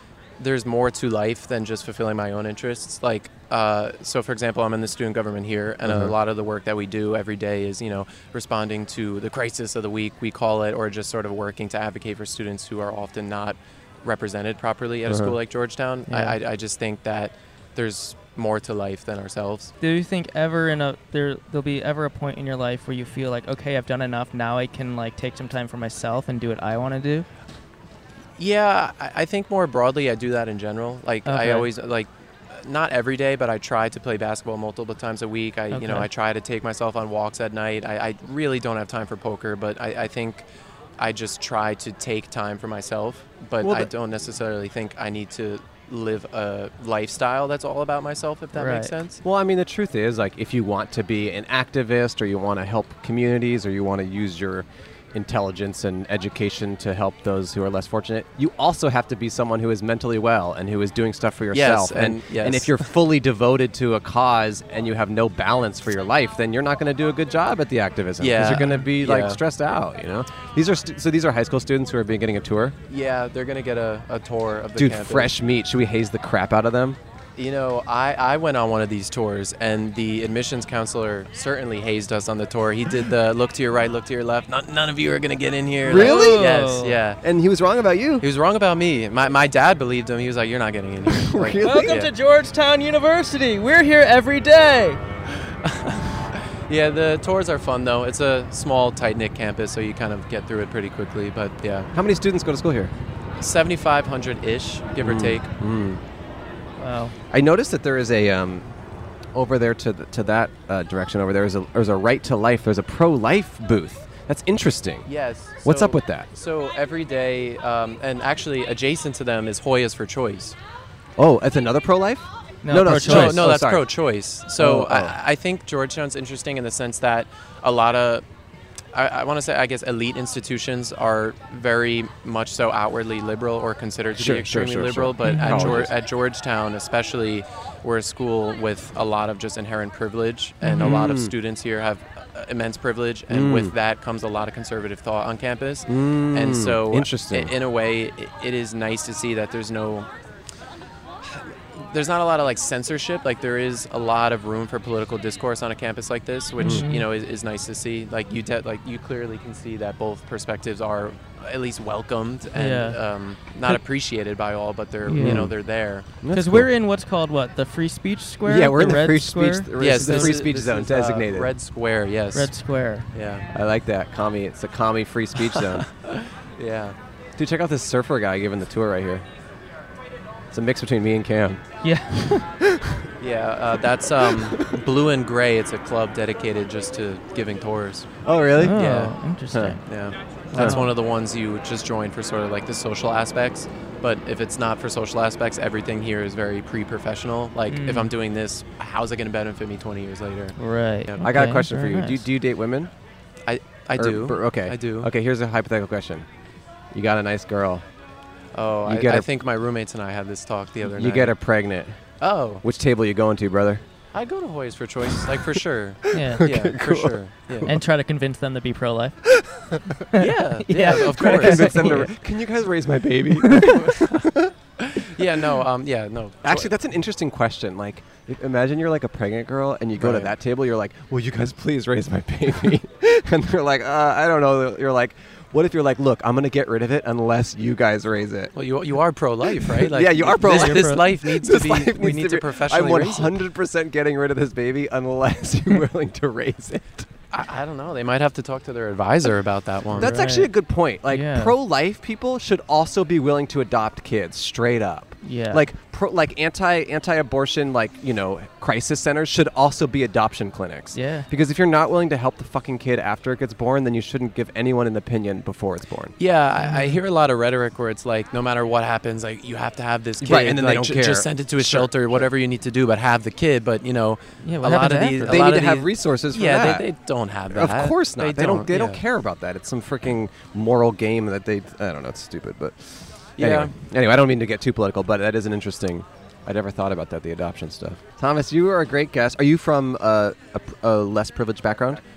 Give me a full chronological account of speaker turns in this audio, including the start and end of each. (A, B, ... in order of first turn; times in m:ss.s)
0:00.4-0:19.7 A
0:05.8-0:06.1 B
0:15.1-0:15.4 B
0:16.1-0:16.4 C
0:19.8-0:27.3 C
0:28.4-0:40.5 A
0:31.3-0:31.7 C
0:35.7-0:36.1 C
0:41.0-0:49.2 A
0:43.6-0:43.9 B
0:48.6-0:48.9 C
0:49.2-1:12.8 B
1:01.5-1:02.8 A
1:08.2-1:09.4 A
1:12.9-1:15.3 A
1:14.8-1:17.0 B
1:17.4-1:27.2 A
1:25.8-1:26.6 B
1:25.9-1:27.0 C
1:27.2-1:28.3 B
1:28.2-1:32.1 A
1:31.1-1:32.0 B
1:31.6-1:35.0 C
1:35.5-1:41.9 A
1:41.9-1:42.9 B
1:43.4-1:45.5 A
1:45.0-1:46.0 B
1:46.8-1:47.2 C
1:47.3-1:48.7 B
1:49.3-1:55.1 B
1:55.1-2:00.6 A
1:55.6-1:56.3 B
2:01.2-2:03.9 B
2:02.6-2:03.4 C
2:03.0-2:08.2 A
2:04.6-2:05.2 B
2:08.9-2:30.1 A
2:14.2-2:15.9 B
2:15.2-2:15.8 C
2:20.6-2:21.0 C
2:20.8-2:21.3 B
2:23.3-2:23.7 B
2:25.9-2:27.5 B
2:31.2-2:46.1 A
2:36.6-2:37.1 C
2:42.6-2:43.0 C
2:45.1-2:45.4 C
2:45.2-2:45.6 B
2:46.2-2:46.7 B
2:46.3-2:50.4 C
2:48.4-2:51.5 B
2:49.8-2:52.5 A
2:52.3-2:53.1 C
2:53.1-2:53.5 A
2:53.5-2:55.9 B
2:56.0-2:57.0 A
2:57.4-2:59.3 B
3:00.5-3:01.6 B
3:01.8-3:02.5 C
3:02.6-3:03.1 B
3:03.2-3:08.1 A
3:04.1-3:04.8 B
3:08.2-3:08.8 B
3:08.6-3:09.8 C
3:08.8-3:09.1 A
3:09.5-3:09.8 B
3:09.9-3:20.6 A
3:10.5-3:10.9 C
3:10.5-3:10.8 B
3:17.7-3:18.1 C
3:20.6-3:22.3 C
3:21.2-3:22.9 B
3:23.5-3:25.1 A
3:24.0-3:26.3 B
3:26.9-3:27.8 B
3:28.5-3:31.3 A
3:28.9-3:29.3 B
3:30.9-3:32.1 B
3:32.2-3:32.6 A
3:32.6-3:33.8 B
3:34.1-3:37.7 A
3:36.1-3:37.8 B
3:36.1-3:36.5 C
3:37.7-3:39.2 C
3:39.4-3:40.0 B
3:40.1-3:42.1 C
3:40.2-3:42.0 A
3:41.0-3:44.5 B
3:43.7-3:44.2 A
3:44.8-3:46.7 A
3:46.4-3:58.5 B
3:50.0-3:50.3 A
3:58.6-4:03.4 A
3:59.6-4:07.1 B
4:00.4-4:01.0 C
4:07.3-4:10.1 A
4:09.9-4:26.2 B
4:10.0-4:10.5 C
4:11.1-4:11.6 C
4:15.2-4:15.6 C
4:20.9-4:21.3 C
4:26.2-4:39.0 A
4:26.6-4:27.0 C
4:30.2-4:32.2 B
4:34.4-4:35.4 C
4:35.2-4:36.9 B
4:37.5-4:52.0 B
4:43.4-4:43.7 A